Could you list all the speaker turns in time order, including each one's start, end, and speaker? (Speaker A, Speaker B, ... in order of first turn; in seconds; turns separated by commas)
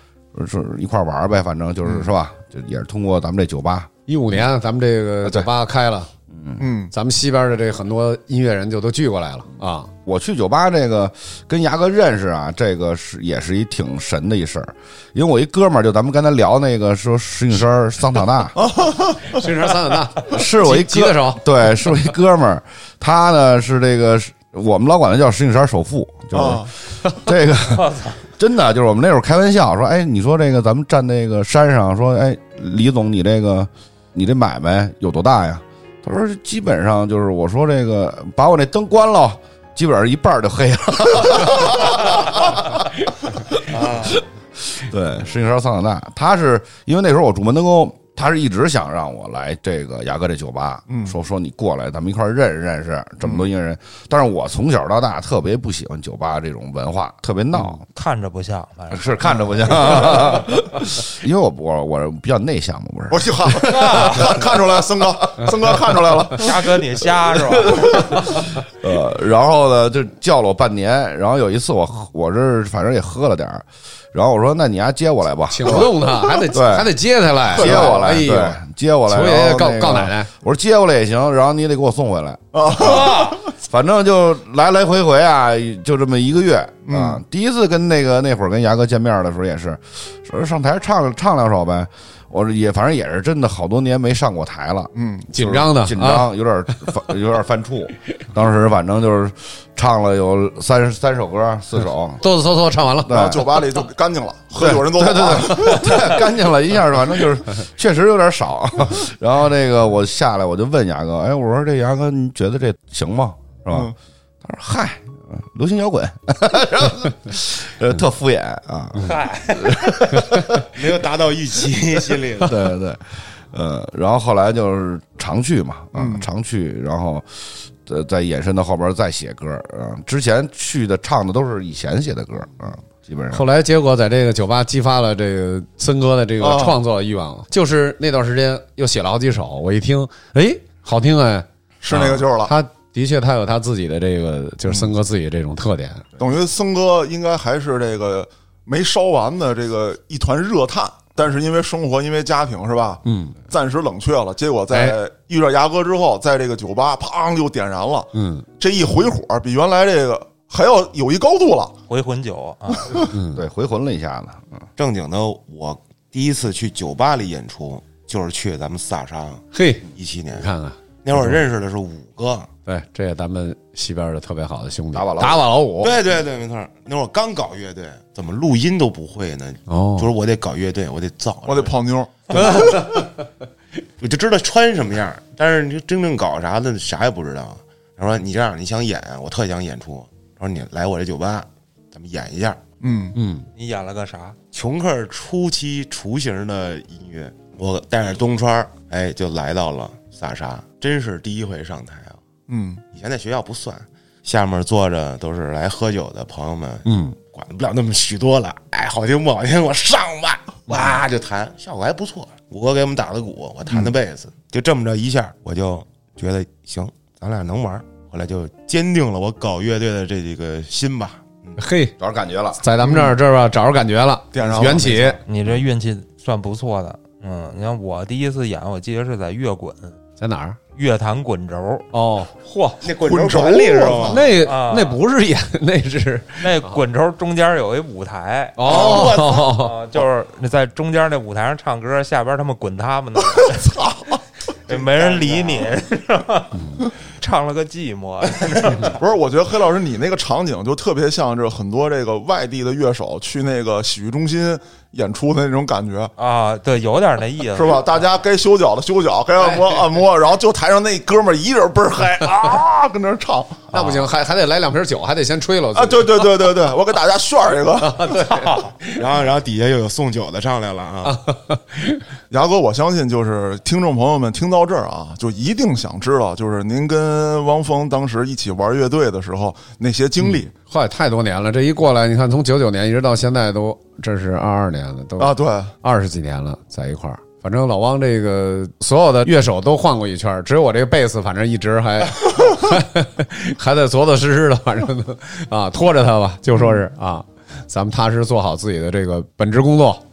Speaker A: 0.3-3.9, Speaker B: 1.8-2.1, Speaker C: 4.1-6.1, Speaker A: 6.3-6.6, Speaker B: 6.6-6.9, Speaker C: 6.9-9.9, Speaker A: 10.1-18.6, Speaker B: 18.6-19.4, Speaker C: 19.3-21.4, Speaker A: 20.3-57.8, Speaker B: 26.3-26.7, Speaker D: 27.8-28.2, Speaker E: 43.7-44.2, Speaker B: 50.9-51.1, Speaker D: 57.9-59.2, Speaker A: 58.9-64.8, Speaker D: 59.8-60.3, Speaker B: 63.1-66.6, Speaker D: 63.7-64.4, Speaker A: 65.4-66.0, Speaker D: 66.3-68.4, Speaker A: 67.3-102.2, Speaker C: 75.5-80.3, Speaker B: 77.6-78.0, Speaker B: 82.5-83.5, Speaker B: 86.9-87.2, Speaker B: 95.0-95.3, Speaker C: 95.3-96.3, Speaker C: 102.2-103.3, Speaker A: 103.0-103.6, Speaker B: 103.1-106.2, Speaker A: 104.5-120.7, Speaker B: 113.7-113.9, Speaker E: 120.7-122.6, Speaker A: 122.4-133.4, Speaker B: 126.0-126.3, Speaker C: 133.3-146.1, Speaker B: 136.4-136.8, Speaker B: 141.8-142.5, Speaker B: 144.7-144.9, Speaker B: 146.2-161.8, Speaker C: 153.1-153.4, Speaker C: 154.7-155.0, Speaker C: 158.1-158.4, Speaker D: 161.9-162.9, Speaker B: 162.7-163.1, Speaker C: 163.1-163.4, Speaker A: 163.3-164.7, Speaker E: 164.8-170.5, Speaker C: 169.5-169.8, Speaker C: 170.3-171.4, Speaker E: 171.0-172.5, Speaker C: 172.7-176.0, Speaker A: 174.9-175.4, Speaker E: 175.8-181.7, Speaker C: 179.7-180.1, Speaker B: 181.5-182.1, Speaker E: 182.3-182.9, Speaker C: 182.4-182.7, Speaker E: 184.0-192.6, Speaker B: 192.8-193.2, Speaker C: 193.2-193.5, Speaker D: 193.6-194.4, Speaker E: 194.5-202.2, Speaker B: 202.5-202.8, Speaker E: 202.9-221.6, Speaker C: 206.8-207.2, Speaker C: 221.6-221.9, Speaker A: 222.0-222.6, Speaker C: 222.6-225.2, Speaker B: 222.8-223.2, Speaker B: 224.3-225.2, Speaker D: 225.3-230.0, Speaker C: 230.2-230.6, Speaker D: 230.8-231.9, Speaker C: 231.9-232.8, Speaker E: 232.8-234.3, Speaker B: 233.0-234.2, Speaker C: 234.1-236.8, Speaker D: 234.4-235.0, Speaker D: 236.4-243.7, Speaker C: 238.6-239.7, Speaker E: 238.6-240.0, Speaker B: 243.4-244.2, Speaker D: 244.7-246.6, Speaker E: 244.7-245.7, Speaker D: 247.2-248.9, Speaker B: 249.0-256.1, Speaker D: 256.2-257.9, Speaker B: 257.6-263.6, Speaker C: 259.4-259.7, Speaker C: 263.7-266.4, Speaker D: 263.7-264.0, Speaker B: 265.8-268.0, Speaker C: 267.8-269.0, Speaker E: 268.9-271.2, Speaker C: 271.1-272.0, Speaker B: 272.3-280.5, Speaker C: 280.2-300.0, Speaker B: 285.2-285.7, Speaker B: 296.5-296.8